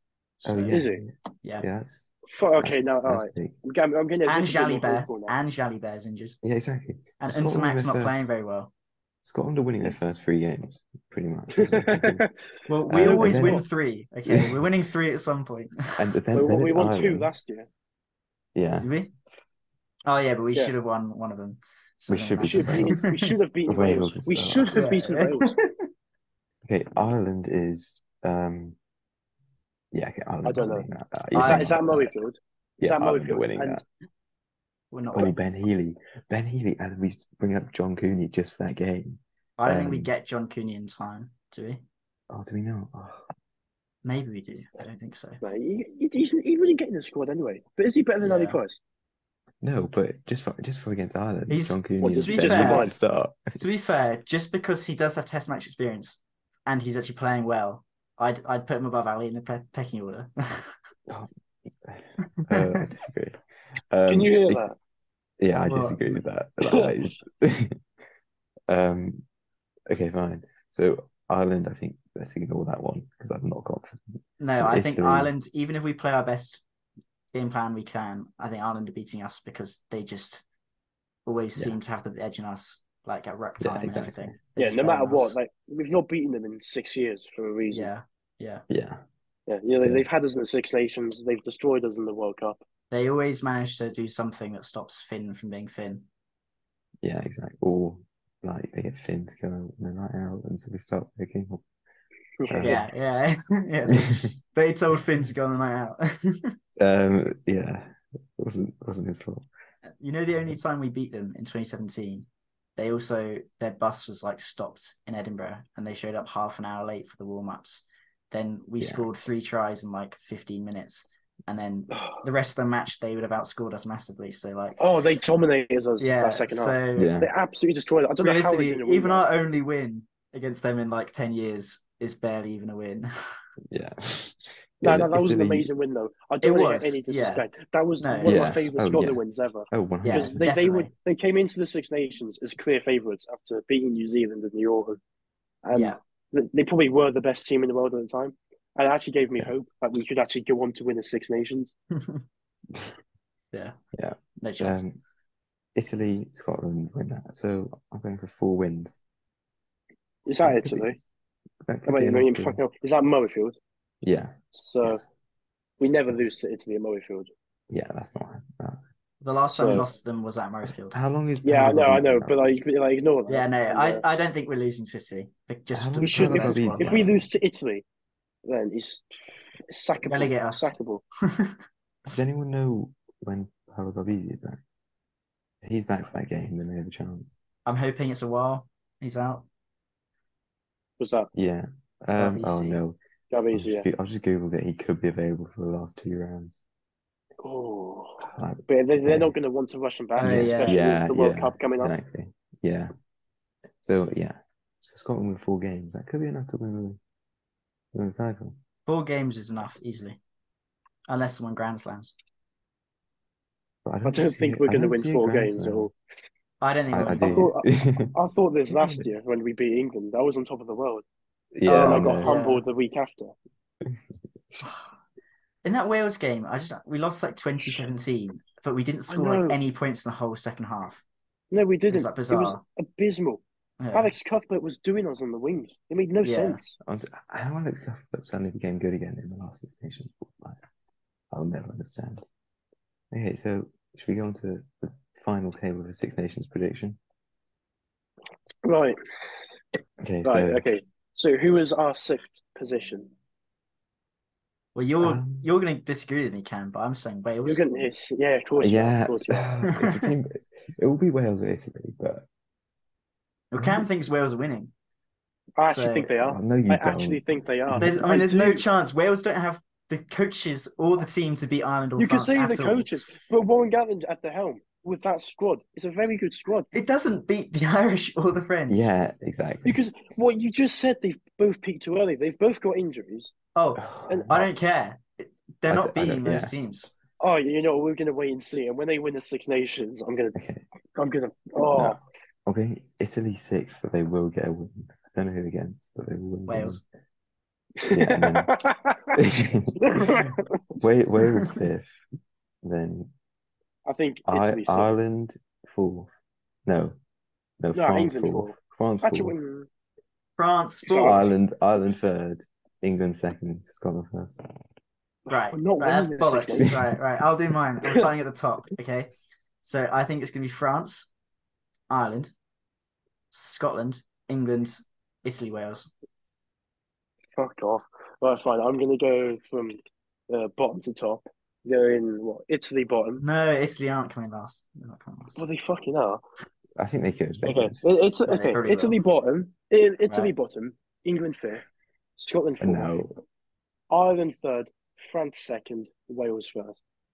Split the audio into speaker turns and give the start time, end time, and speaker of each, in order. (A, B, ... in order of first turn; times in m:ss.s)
0:00.4-0:00.8 A
0:00.4-0:03.6 B
0:00.7-0:01.0 C
0:02.3-0:05.4 C
0:04.2-0:06.4 A
0:06.4-0:08.3 B
0:07.2-0:08.7 A
0:09.2-0:12.2 B
0:11.6-0:12.3 C
0:12.7-0:16.0 A
0:12.9-0:13.6 B
0:12.9-0:13.6 C
0:14.3-0:14.6 B
0:16.0-0:17.3 B
0:16.3-0:17.7 C
0:18.5-0:18.9 B
0:18.7-0:19.1 A
0:20.0-0:23.3 A
0:22.1-0:23.0 B
0:22.4-0:25.5 C
0:23.7-0:24.7 B
0:24.7-0:25.9 A
0:26.6-0:28.8 B
0:29.9-0:32.1 B
0:30.4-0:33.8 C
0:31.3-0:31.8 A
0:32.8-0:33.8 B
0:34.9-0:35.4 A
0:35.1-0:40.1 B
0:39.6-0:41.8 A
0:42.3-0:43.2 B
0:44.0-0:45.4 A
0:45.4-0:48.8 C
0:48.2-0:48.6 A
0:49.6-0:53.6 B
0:51.5-0:52.9 A
0:52.0-0:52.9 C
0:53.6-1:00.7 A
1:01.8-1:03.4 B
1:02.5-1:02.8 A
1:03.9-1:04.7 B
1:04.1-1:04.8 C
1:05.4-1:07.8 B
1:05.7-1:06.2 A
1:08.7-1:09.2 B
1:09.9-1:15.3 B
1:14.4-1:16.6 A
1:17.3-1:20.4 A
1:21.2-1:25.4 A
1:23.6-1:24.4 B
1:24.6-1:27.9 C
1:27.7-1:28.6 A
1:28.7-1:29.0 B
1:29.5-1:32.6 C
1:29.8-1:30.1 B
1:32.9-1:36.0 A
1:37.0-1:41.6 B
1:42.4-1:42.8 C
1:42.5-1:42.9 B
1:42.6-1:46.5 A
1:43.9-1:44.3 B
1:46.8-1:49.4 B
1:50.0-2:04.8 A
1:58.8-1:59.1 B
2:01.9-2:02.2 C
2:04.8-2:09.2 C
2:06.0-2:07.1 A
2:07.0-2:07.3 B
2:08.2-2:13.1 A
2:13.7-2:15.7 B
2:14.8-2:25.0 C
2:16.4-2:17.4 A
2:18.0-2:18.4 A
2:18.2-2:20.4 B
2:20.0-2:20.9 A
2:25.6-2:31.7 C
2:33.9-2:35.0 B
2:34.4-2:34.8 A
2:35.8-2:39.0 B
2:40.3-2:41.0 C
2:40.4-2:40.9 B
2:41.6-2:42.6 B
2:41.9-2:43.6 C
2:44.0-2:45.0 B
2:44.5-2:45.0 C
2:45.8-2:47.3 C
2:47.7-2:48.8 B
2:49.2-2:51.0 A
2:49.6-2:49.9 C
2:50.7-2:52.4 B
2:51.4-2:54.0 C
2:53.3-2:57.0 A
2:55.7-2:57.3 B
2:56.1-2:57.8 C
2:58.4-2:59.1 C
2:59.7-3:01.0 C
3:00.1-3:00.7 A
3:01.3-3:01.6 A
3:02.1-3:04.6 B
3:05.6-3:07.3 B
3:07.6-3:09.4 A
3:11.0-3:11.3 C
3:11.3-3:13.0 B
3:12.2-3:12.8 A
3:13.3-3:13.8 C
3:13.5-3:16.6 B
3:17.4-3:21.9 C
3:18.2-3:19.3 B
3:20.2-3:20.8 A
3:20.2-3:22.9 B
3:23.8-3:27.0 B
3:27.9-3:28.6 B
3:28.8-3:30.2 A
3:31.1-3:32.1 A
3:33.8-3:35.9 B
3:34.0-3:35.9 C
3:36.6-3:37.5 A
3:36.9-3:38.1 B
3:37.2-3:41.0 C
3:38.7-3:39.1 B
3:41.5-3:42.3 B
3:41.6-3:42.6 A
3:41.7-3:43.3 C
3:43.8-3:44.6 B
3:44.6-3:44.9 A
3:45.6-3:51.0 A
3:49.1-3:49.6 C
3:51.5-3:53.4 C
3:51.9-3:52.6 A
3:53.8-3:54.1 A
3:53.9-3:56.8 C
3:56.2-3:56.6 A
3:56.8-4:00.6 B
4:01.3-4:02.2 B
4:03.1-4:07.0 B
4:08.6-4:09.0 C
4:10.0-4:10.6 B
4:10.2-4:13.1 C
4:14.7-4:17.6 A
4:15.0-4:15.4 B
4:17.4-4:19.4 C
4:18.6-4:22.2 B
4:19.7-4:20.0 A
4:23.5-4:24.7 A
4:23.6-4:23.8 B
4:25.6-4:28.6 C
4:25.6-4:26.1 A
4:26.2-4:28.0 B
4:27.8-4:32.9 A
4:32.0-4:36.7 C
4:36.7-4:38.8 A
4:38.7-4:39.8 B
4:39.6-4:43.3 C
4:43.5-4:46.9 A
4:43.8-4:44.5 B
4:44.1-4:44.4 C
4:45.7-4:46.5 B
4:47.2-4:50.4 C
4:50.3-4:50.6 B
4:50.9-4:52.0 C
4:51.7-4:56.8 B
4:56.5-4:56.8 A
4:57.8-4:59.2 C
4:57.9-4:58.6 B
4:59.1-5:00.3 B
4:59.8-5:00.5 C
5:00.8-5:02.0 B
5:02.6-5:03.1 B
5:03.8-5:04.9 C
5:04.2-5:06.1 B
5:06.6-5:07.0 B
5:07.6-5:09.3 B
5:07.7-5:09.7 C
5:10.4-5:11.2 A
5:10.9-5:11.3 C
5:11.0-5:14.4 B
5:15.3-5:16.7 C
5:15.3-5:19.1 A
5:16.6-5:17.0 B
5:19.6-5:21.1 A
5:21.9-5:22.3 A
5:23.3-5:25.9 A
5:27.4-5:29.8 C
5:30.3-5:33.2 C
5:33.2-5:35.4 A
5:35.4-5:36.2 C
5:36.8-5:37.8 B
5:37.4-5:41.6 C
5:38.3-5:39.0 A
5:40.1-5:40.3 A
5:42.2-5:42.9 C
5:42.6-5:43.2 B
5:43.9-5:46.8 C